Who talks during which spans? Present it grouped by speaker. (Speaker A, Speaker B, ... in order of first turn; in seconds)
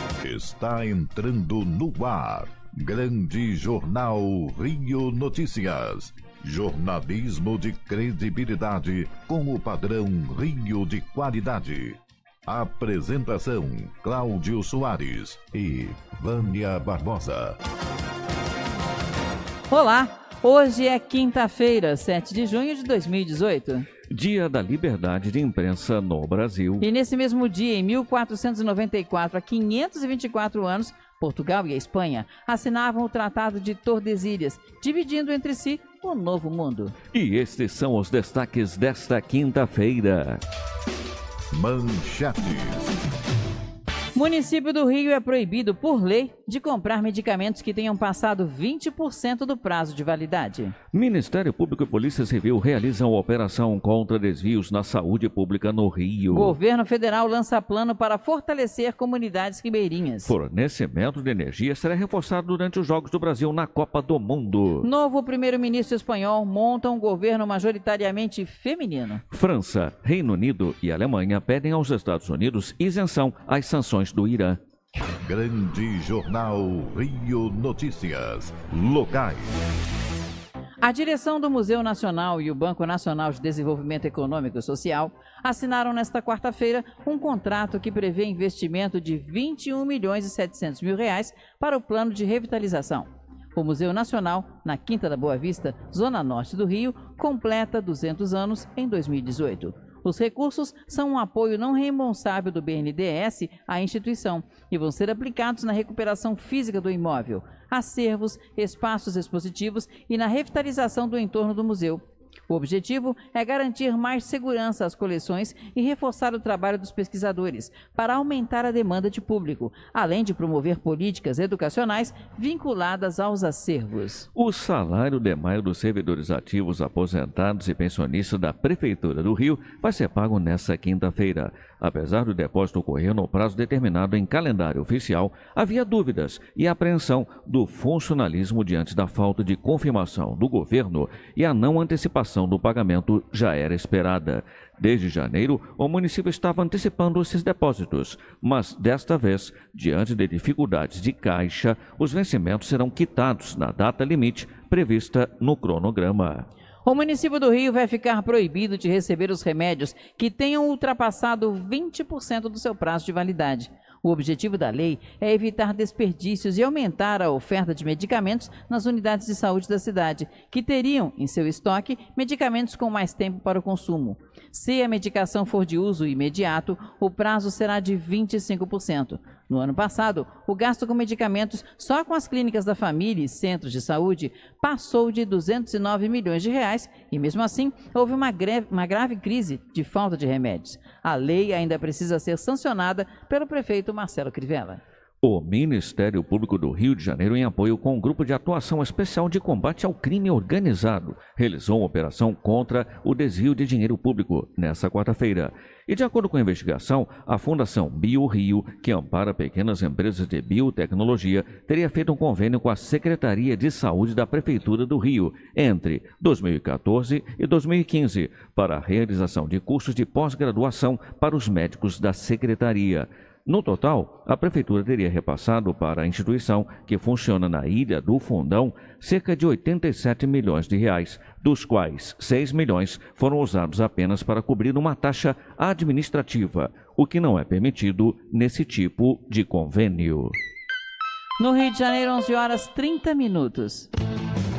Speaker A: 0.2-17.6, 41.5-42.9, 75.2-79.6
Speaker B: 19.7-23.9, 26.8-37.0, 44.1-50.8, 56.3-60.3, 64.8-69.2, 80.8-124.3, 156.8-194.8, 241.4-243.9
Speaker C: 24.1-26.8, 37.1-40.4, 50.9-56.6, 60.2-64.9, 69.3-74.6, 124.3-156.5, 195.2-240.3